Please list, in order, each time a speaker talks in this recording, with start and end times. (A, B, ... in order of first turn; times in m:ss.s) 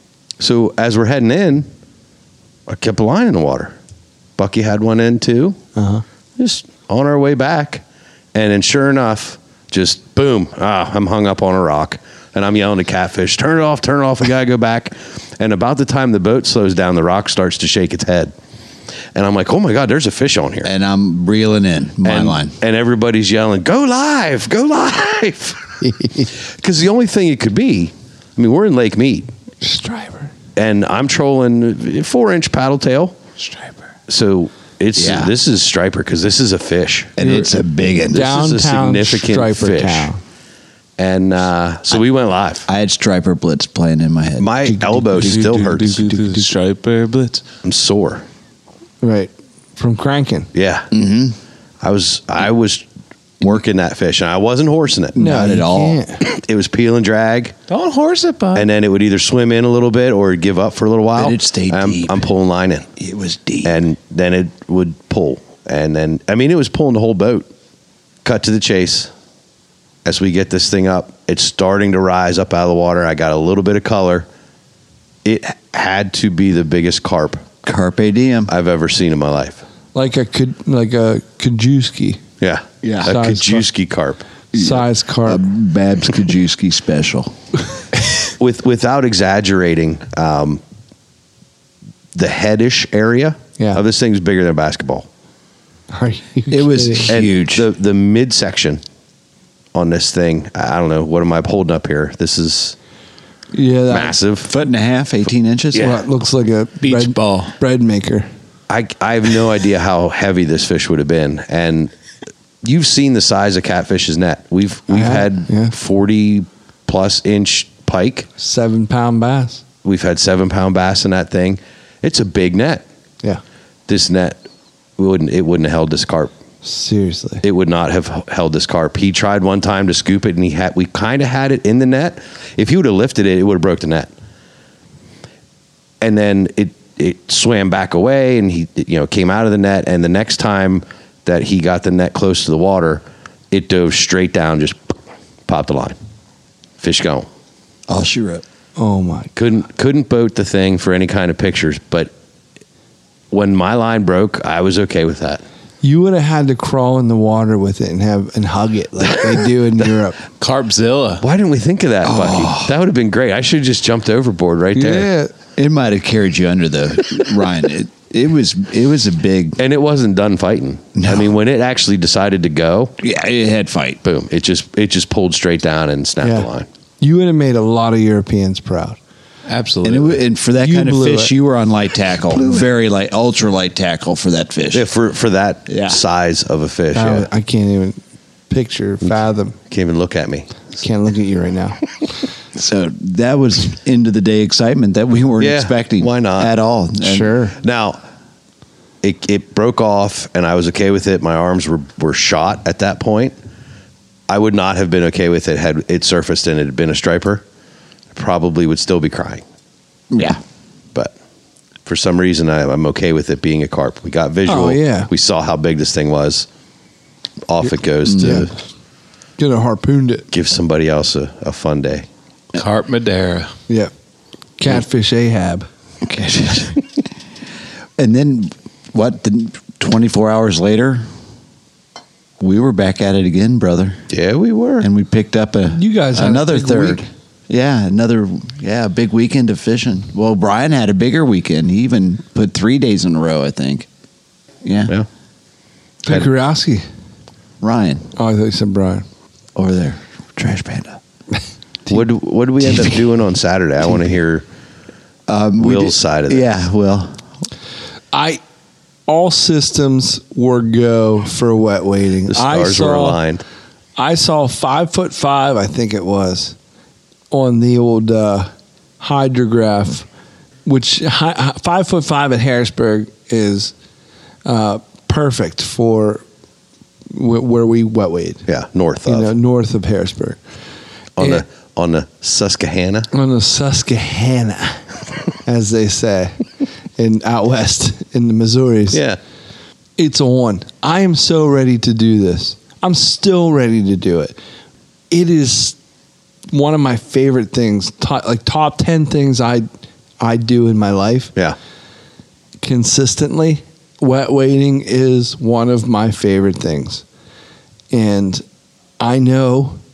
0:00.4-0:01.7 A
0:02.7-0:03.8 A
0:04.4-0:05.6 A
0:05.8-0:06.0 B
0:06.4-0:07.8 A
0:08.3-0:18.3 A
0:19.2-0:20.7 A
0:20.6-0:22.6 C
0:22.0-0:25.7 A
0:25.8-0:26.3 B
0:26.4-0:29.3 A
0:29.6-0:30.3 B
0:30.6-0:33.2 A
0:33.4-0:33.8 D
0:34.1-0:37.2 A
0:35.0-0:35.4 C
0:37.2-0:38.4 C
0:38.1-0:40.2 B
0:38.2-0:40.1 A
0:41.0-0:42.7 A
0:42.7-0:44.5 C
0:44.4-0:46.0 A
0:44.6-0:46.5 B
0:45.2-0:47.4 D
0:47.6-0:48.2 A
0:49.0-0:50.5 B
0:50.5-0:50.9 A
0:50.9-0:51.4 C
0:51.8-0:52.8 A
0:53.4-0:55.2 A
0:55.2-0:56.0 C
0:55.2-0:56.2 B
0:56.2-0:57.5 A
0:57.7-0:58.7 D
0:58.5-1:02.9 A
1:01.1-1:02.3 C
1:03.0-1:03.8 C
1:03.6-1:07.5 A
1:08.2-1:09.1 A
1:10.0-1:14.3 A
1:15.2-1:17.5 A
1:17.6-1:18.5 C
1:18.5-1:19.6 A
1:20.0-1:22.2 B
1:22.4-1:24.3 A
1:22.8-1:23.2 C
1:23.0-1:23.7 B
1:24.5-1:25.4 B
1:24.5-1:27.3 C
1:28.4-1:30.6 A
1:32.2-1:35.1 A
1:35.9-1:37.1 B
1:36.5-1:37.7 C
1:37.1-1:38.8 A
1:39.7-1:42.8 A
1:43.5-1:44.2 B
1:43.9-1:44.5 A
1:44.4-1:46.0 C
1:45.7-1:46.0 A
1:45.8-1:48.3 B
1:46.8-1:47.5 D
1:48.7-1:51.9 A
1:52.6-1:58.3 A
1:54.9-1:55.7 B
1:58.4-1:59.6 B
1:59.8-2:02.8 A
2:03.9-2:04.4 A
2:05.0-2:06.3 A
2:06.6-2:07.4 B
2:07.4-2:14.1 A
2:16.0-2:24.8 A
2:25.5-2:26.0 A
2:26.8-2:27.3 A
2:27.9-2:28.4 C
2:28.8-2:29.3 B
2:29.4-2:32.1 A
2:33.3-2:35.4 A
2:35.8-2:40.2 B
2:40.4-2:41.2 D
2:41.2-2:45.1 A
2:42.0-2:42.8 C
2:44.8-2:45.3 B
2:45.6-2:49.6 C
2:49.6-2:52.9 A
2:51.0-2:51.3 C
2:53.0-2:54.0 C
2:54.0-2:56.7 A
2:56.2-2:56.5 B
2:57.0-2:59.0 B
2:59.5-3:00.2 D
2:59.8-3:04.9 C
3:00.6-3:01.3 B
3:04.7-3:07.3 A
3:05.7-3:06.0 C
3:06.9-3:09.6 B
3:09.7-3:10.5 A
3:10.8-3:11.8 B
3:12.6-3:17.3 C
3:15.4-3:16.5 A
3:17.0-3:17.6 B
3:17.6-3:18.0 A
3:19.0-3:23.4 A
3:24.3-3:27.4 A
3:28.1-3:29.4 A
3:30.1-3:30.4 C
3:31.9-3:36.5 A
3:34.5-3:35.1 B
3:37.5-3:38.5 A
3:38.0-3:38.5 C
3:38.2-3:38.5 B
3:39.4-3:40.3 B
3:40.3-3:42.1 A
3:42.5-3:43.5 D
3:44.6-3:45.7 B
3:46.0-3:46.8 C
3:48.0-3:51.0 C
3:52.4-3:54.0 C
3:54.1-3:54.9 A
3:54.8-4:03.9 C
3:55.7-3:57.0 B
4:04.6-4:05.0 C
4:06.0-4:06.8 B
4:07.6-4:08.1 C
4:08.2-4:09.0 B
4:09.6-4:11.0 C
4:11.9-4:14.4 A
4:12.6-4:13.0 C
4:13.8-4:14.1 C
4:15.3-4:17.2 C
4:15.6-4:16.5 A
4:18.1-4:18.4 B
4:19.1-4:23.2 B
4:22.3-4:23.4 A
4:24.0-4:26.6 B
4:27.3-4:30.1 B
4:30.7-4:33.7 B
4:34.4-4:36.2 B
4:37.1-4:38.4 B
4:38.5-4:39.3 A
4:39.1-4:40.4 B
4:41.2-4:43.1 A
4:43.1-4:44.8 B
4:45.4-4:46.3 B
4:47.0-4:49.0 B
4:48.9-4:49.2 A
4:50.0-4:54.4 B
4:55.1-4:55.8 B
4:56.5-4:59.7 B
5:00.2-5:01.3 B
5:02.6-5:07.0 B
5:07.9-5:08.4 B
5:09.0-5:09.8 B